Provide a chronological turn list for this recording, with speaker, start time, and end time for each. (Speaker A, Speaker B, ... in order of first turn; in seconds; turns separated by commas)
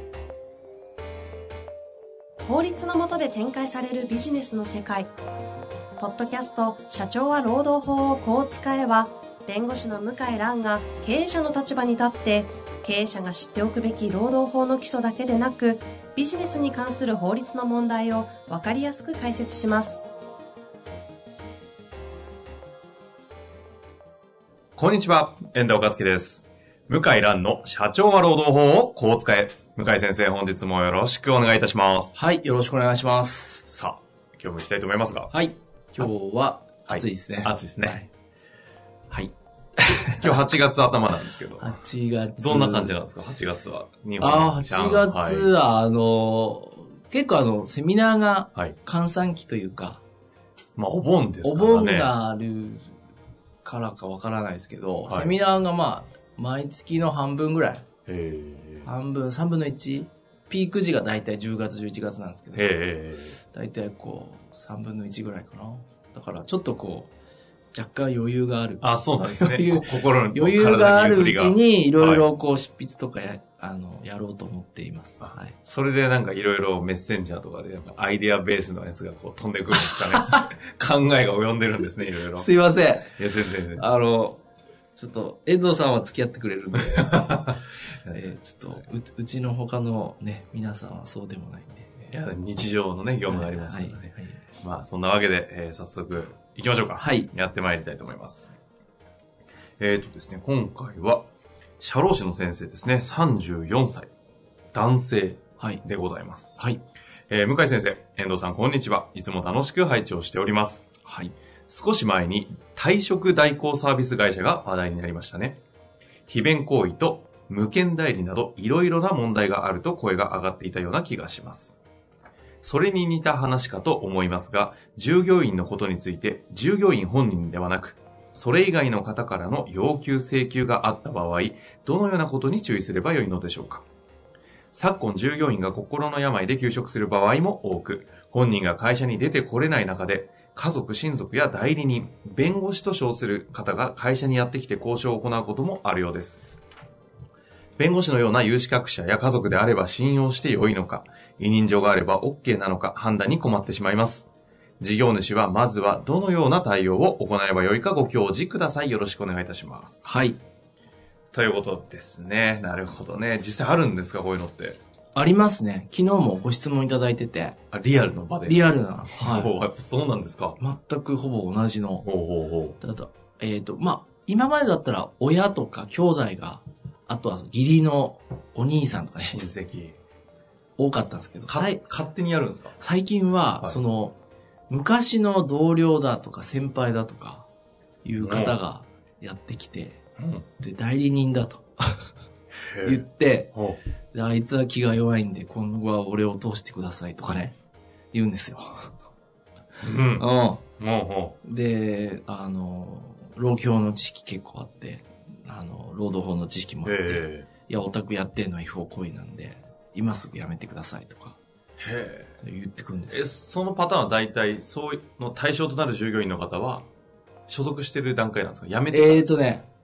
Speaker A: 2.4-5.1, Speaker A: 6.0-20.0, Speaker B: 24.8-32.1, Speaker C: 32.1-33.7, Speaker B: 33.7-35.3, Speaker C: 35.3-38.1, Speaker B: 36.9-38.0, Speaker C: 39.1-40.4, Speaker B: 40.2-41.8, Speaker C: 41.6-42.9, Speaker B: 42.4-45.5, Speaker C: 44.2-50.0, Speaker B: 50.8-52.1, Speaker C: 51.4-53.0, Speaker C: 53.6-57.8, Speaker B: 55.1-55.3, Speaker B: 58.0-58.9, Speaker C: 58.8-62.7, Speaker B: 62.5-63.4, Speaker C: 63.5-67.1, Speaker C: 67.7-75.5, Speaker B: 68.8-72.2, Speaker B: 75.2-82.5, Speaker C: 82.3-83.1, Speaker B: 83.2-83.8, Speaker C: 83.7-84.4, Speaker C: 84.9-92.1, Speaker B: 87.1-87.5, Speaker B: 92.1-98.5, Speaker C: 93.2-94.4, Speaker C: 97.0-97.3, Speaker B: 99.8-101.3, Speaker B: 101.8-104.1, Speaker B: 104.7-106.6, Speaker B: 107.3-110.9, Speaker C: 111.0-111.3, Speaker B: 111.7-115.6, Speaker B: 116.3-121.7, Speaker B: 122.6-133.8, Speaker B: 134.7-146.5, Speaker B: 147.8-154.3, Speaker B: 154.8-160.0, Speaker C: 160.0-160.4, Speaker B: 161.3-164.8, Speaker C: 165.1-167.6, Speaker B: 167.7-170.6, Speaker C: 168.4-169.5, Speaker C: 170.6-172.0, Speaker B: 172.0-172.8, Speaker C: 172.8-179.4, Speaker B: 179.3-180.0, Speaker C: 180.8-181.8, Speaker B: 181.5-182.8, Speaker C: 182.8-184.2, Speaker C: 184.7-187.5, Speaker C: 188.0-190.0, Speaker B: 188.2-188.5, Speaker B: 190.2-190.4, Speaker C: 190.6-192.1, Speaker B: 192.6-193.8, Speaker C: 192.8-193.5, Speaker C: 194.1-197.5, Speaker C: 198.1-198.9, Speaker B: 199.8-201.4, Speaker C: 200.2-200.6, Speaker C: 201.4-211.4, Speaker B: 206.8-207.5, Speaker B: 211.8-212.3, Speaker C: 212.4-213.2, Speaker B: 213.1-216.9, Speaker B: 217.5-219.4, Speaker C: 218.9-219.7